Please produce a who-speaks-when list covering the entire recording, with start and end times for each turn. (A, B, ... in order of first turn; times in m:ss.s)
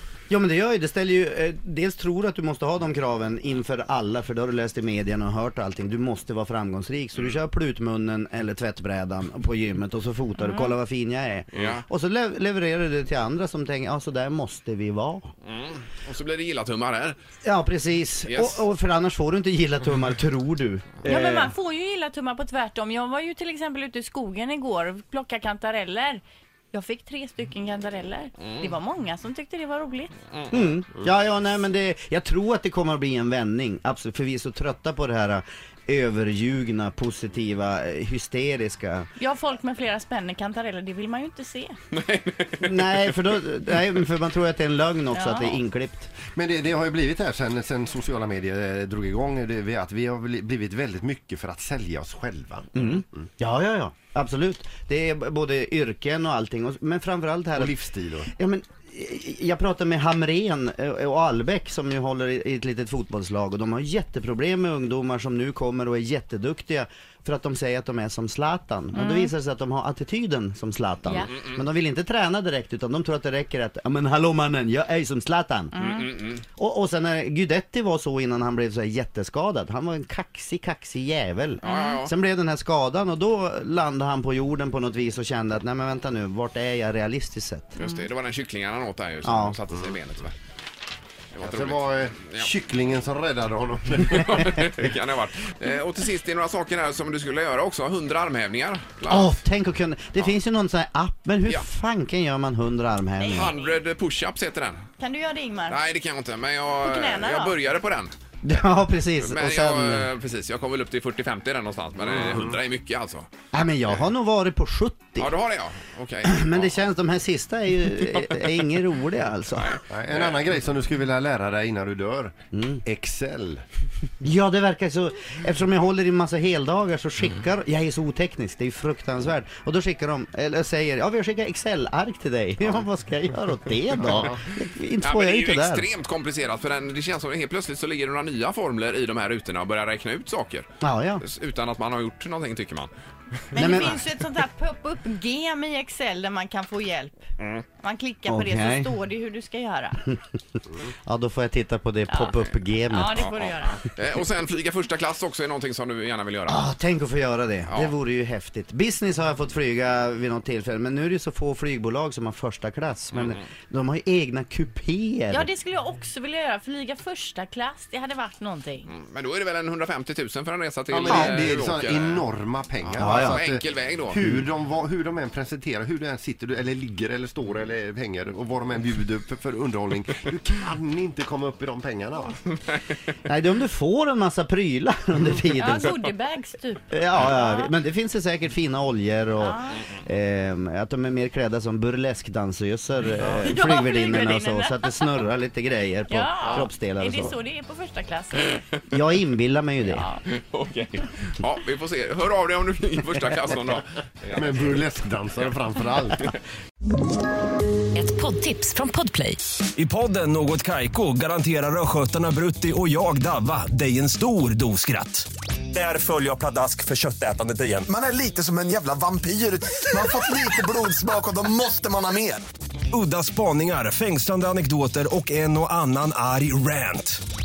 0:00.3-0:15.3 A
0:10.4-0:10.8 B
0:11.5-0:11.8 C
0:15.4-0:17.2 C
0:17.4-0:21.5 A
0:18.3-0:18.6 C
0:21.1-0:30.1 B
0:28.4-0:28.7 C
0:30.3-0:30.7 C
0:30.5-0:39.1 A
0:39.2-0:41.7 B
0:41.9-0:43.2 C
0:42.6-0:46.1 A
0:45.1-0:45.6 B
0:46.3-0:53.0 D
0:52.8-0:57.7 A
0:57.6-0:58.3 D
0:58.3-1:16.0 A
1:08.9-1:09.3 B
1:15.7-1:16.2 B
1:15.8-1:16.4 C
1:16.6-1:27.8 A
1:21.6-1:22.1 C
1:21.6-1:21.9 B
1:27.8-1:30.4 C
1:29.2-1:29.6 A
1:31.4-1:32.5 C
1:31.4-1:34.5 D
1:34.0-1:39.4 C
1:39.1-1:43.5 A
1:43.2-1:43.8 B
1:43.3-1:44.9 C
1:45.0-1:45.8 B
1:45.7-1:48.6 C
1:46.8-1:47.6 B
1:48.4-1:50.1 A
1:49.2-1:53.3 C
1:52.0-1:52.6 D
1:53.5-1:55.3 A
1:55.2-1:56.8 C
1:56.2-1:59.8 A
1:58.1-1:58.4 C
1:59.5-2:00.5 C
1:59.9-2:03.6 D
2:02.5-2:02.8 A
2:04.2-2:15.9 A
2:14.0-2:14.4 D
2:15.0-2:20.7 C
2:20.8-2:21.2 A
2:21.2-2:22.9 C
2:23.5-2:24.0 C
2:23.5-2:30.0 B
2:23.6-2:24.0 A
2:27.4-2:27.6 C
2:28.3-2:28.9 A
2:30.9-2:33.3 A
2:32.9-2:33.8 B
2:33.1-2:36.7 C
2:36.5-2:45.5 A
2:37.7-2:38.0 C
2:43.1-2:43.4 C
2:45.3-2:48.9 B
2:48.9-2:52.2 C
2:50.9-3:02.4 D
2:51.1-2:51.4 A
2:52.9-2:54.2 C
2:53.0-2:53.4 A
3:02.5-3:02.8 C
3:03.3-3:06.0 A
3:05.6-3:07.7 B
3:06.9-3:17.4 A
3:09.4-3:09.9 B
3:13.4-3:15.1 B
3:16.1-3:18.6 B
3:18.9-3:20.0 A
3:19.9-3:20.2 B
3:20.3-3:24.9 C
3:24.3-3:26.3 D
3:29.7-3:37.9 E
3:37.9-3:42.4 F
3:42.9-3:47.2 E